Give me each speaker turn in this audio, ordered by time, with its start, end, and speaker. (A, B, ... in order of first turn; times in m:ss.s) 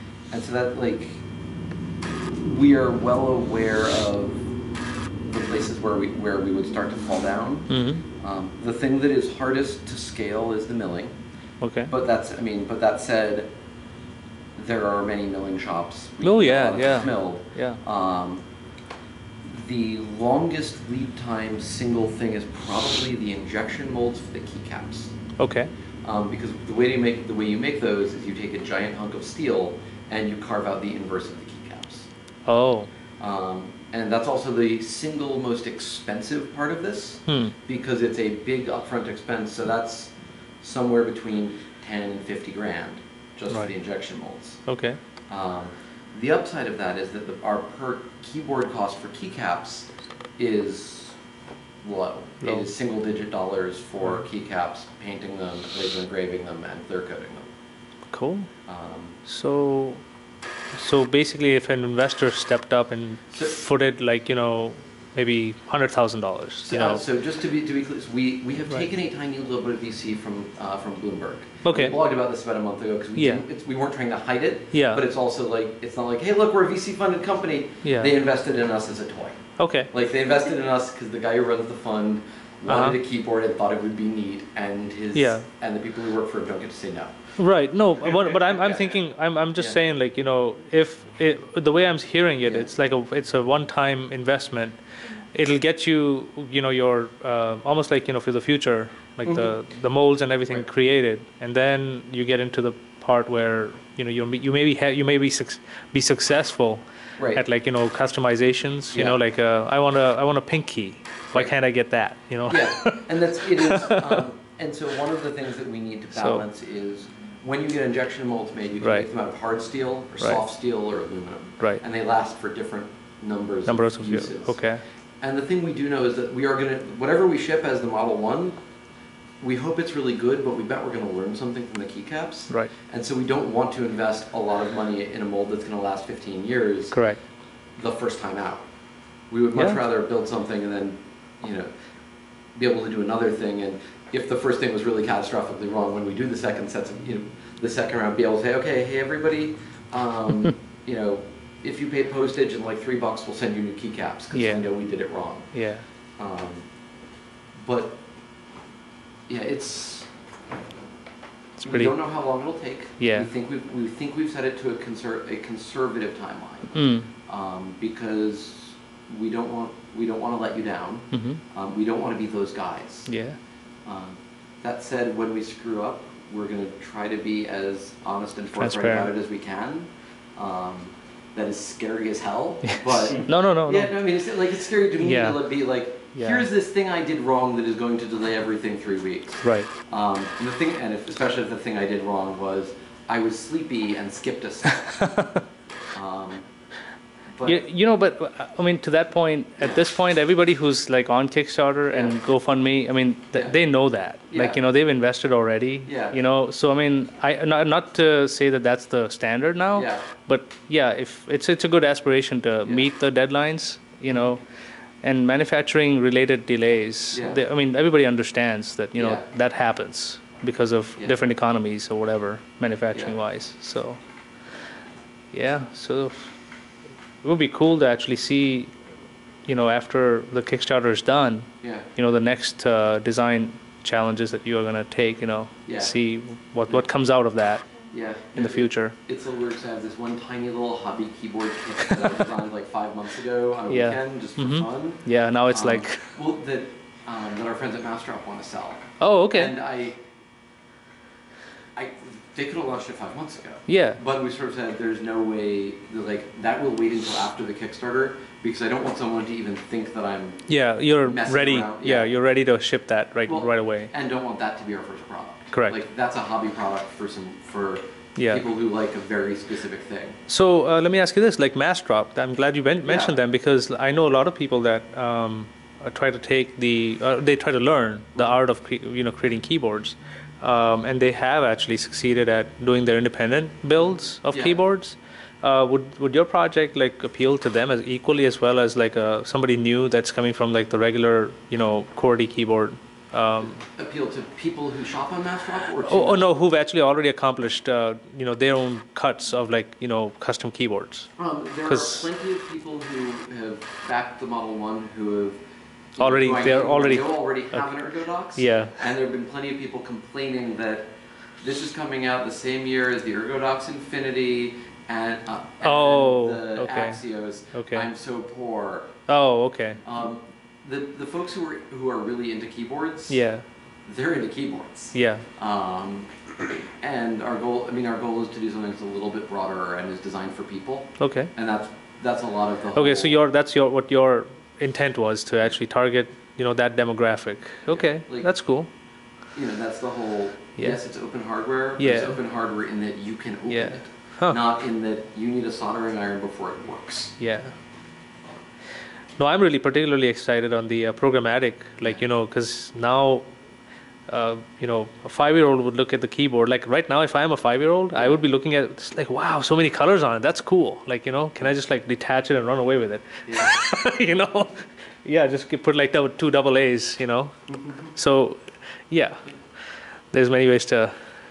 0:00.3-0:01.2 A
0:02.4-0:04.5 A
0:05.2-0:11.2 A
0:07.7-0:08.0 B
0:11.6-0:11.9 B
0:11.9-0:13.5 A
0:14.6-0:18.4 A
0:16.2-0:17.8 B
0:19.4-0:25.1 A
0:25.4-0:25.7 B
0:26.0-0:32.1 A
0:32.5-0:32.9 B
0:33.2-0:44.6 A
0:37.3-0:37.6 B
0:44.7-0:45.0 B
0:45.3-0:51.2 A
0:51.8-0:57.5 A
0:58.1-0:58.5 B
0:58.7-0:59.2 A
0:59.3-1:00.0 B
1:00.8-1:07.0 B
1:06.6-1:27.1 A
1:11.6-1:12.0 B
1:13.2-1:13.4 B
1:14.7-1:15.0 B
1:17.8-1:18.1 B
1:19.6-1:19.9 B
1:22.7-1:23.0 B
1:25.2-1:25.5 B
1:27.4-1:34.8 B
1:28.0-1:29.0 A
1:29.6-1:29.8 A
1:32.4-1:32.7 A
1:35.3-1:54.3 B
1:39.2-1:39.6 A
1:47.2-1:47.4 A
1:48.9-1:49.2 A
1:52.5-2:08.6 A
1:56.1-1:56.4 B
1:58.8-1:59.1 B
2:03.7-2:04.8 B
2:09.4-2:17.1 A
2:16.9-2:17.2 B
2:17.8-2:18.6 A
2:19.3-2:21.7 A
2:19.6-2:19.8 B
2:22.6-2:35.6 A
2:34.3-2:35.9 B
2:36.2-2:36.7 A
2:37.6-2:38.0 A
2:39.3-2:40.1 A
2:41.6-2:42.4 B
2:41.6-2:53.2 A
2:43.0-2:43.3 B
2:46.7-2:47.1 B
2:51.1-2:51.4 B
2:53.1-2:53.4 B
2:53.8-3:15.3 A
2:58.5-2:59.1 B
3:02.7-3:04.0 B
3:05.0-3:06.5 B
3:09.4-3:09.7 B
3:15.9-3:16.4 A
3:17.4-3:17.6 A
3:17.4-3:34.4 B
3:21.9-3:22.2 A
3:24.3-3:24.6 A
3:25.8-3:26.2 A
3:29.7-3:30.1 A
3:32.6-3:32.9 A
3:34.1-3:34.4 A
3:35.0-3:44.0 B
3:37.1-3:37.4 A
3:39.0-3:39.2 A
3:45.3-3:46.3 B
3:47.2-3:48.7 B
3:49.5-3:57.6 B
3:55.7-3:56.0 A
3:57.9-4:10.0 A
3:58.3-3:59.0 B
4:03.7-4:06.1 B
4:09.0-4:09.6 B
4:11.8-4:22.1 A
4:13.7-4:14.0 B
4:20.5-4:23.9 B
4:23.3-4:30.2 A
4:25.5-4:25.8 B
4:28.2-4:28.4 B
4:30.3-4:53.6 B
4:32.8-4:33.2 A
4:44.3-4:44.6 A
4:53.7-4:56.2 A
4:55.8-5:01.1 B
5:01.2-5:05.4 A
5:01.6-5:02.1 B
5:05.9-5:19.1 A
5:06.0-5:08.8 B
5:15.6-5:17.9 B
5:19.1-5:19.8 B
5:19.8-5:23.2 A
5:23.1-5:23.4 B
5:23.9-5:26.1 A
5:24.9-5:25.2 B
5:26.8-5:33.2 A
5:31.0-5:31.3 B
5:32.8-5:38.7 B
5:37.7-5:38.4 A
5:39.3-5:47.2 A
5:40.6-5:41.1 B
5:41.8-5:42.2 B
5:43.5-5:44.4 B
5:47.2-5:47.6 B
5:49.2-5:53.3 B
5:54.1-6:07.3 B
5:58.0-5:58.2 A
6:07.5-6:07.9 A
6:08.0-6:09.3 B
6:10.1-6:10.9 B